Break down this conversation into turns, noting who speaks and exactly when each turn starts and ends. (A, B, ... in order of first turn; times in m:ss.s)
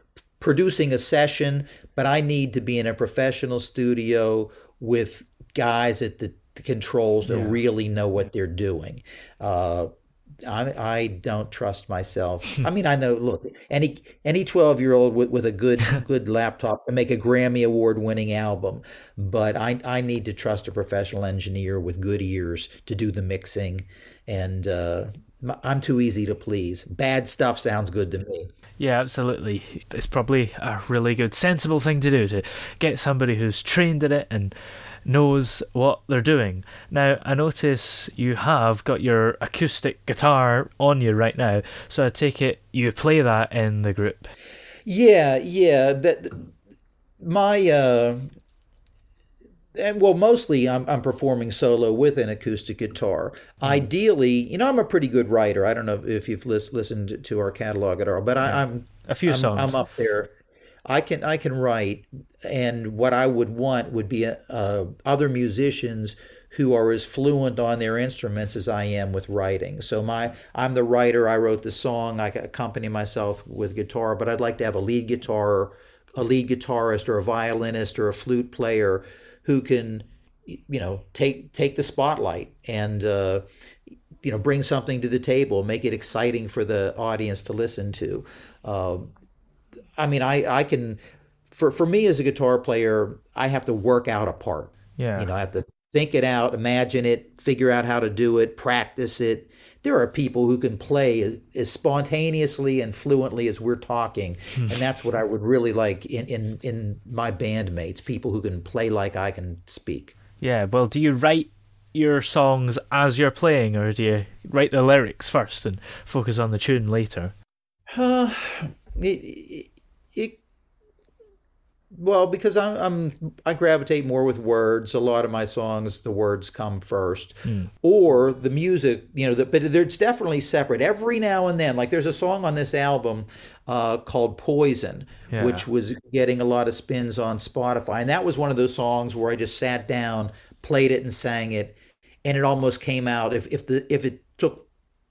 0:00.4-0:09.9 A
0:07.3-0:07.6 B
0:10.4-0:28.5 A
0:28.8-0:44.3 B
0:44.8-0:46.4 A
0:47.2-0:48.3 A
0:49.8-1:00.3 A
0:58.4-0:59.8 B
1:00.9-1:23.4 A
1:24.2-1:29.1 A
1:30.0-1:31.0 A
1:31.5-1:50.1 A
1:35.0-1:35.3 B
1:50.4-1:57.3 B
1:57.9-2:00.4 A
2:01.9-2:24.7 A
2:07.4-2:07.7 B
2:15.3-2:15.6 B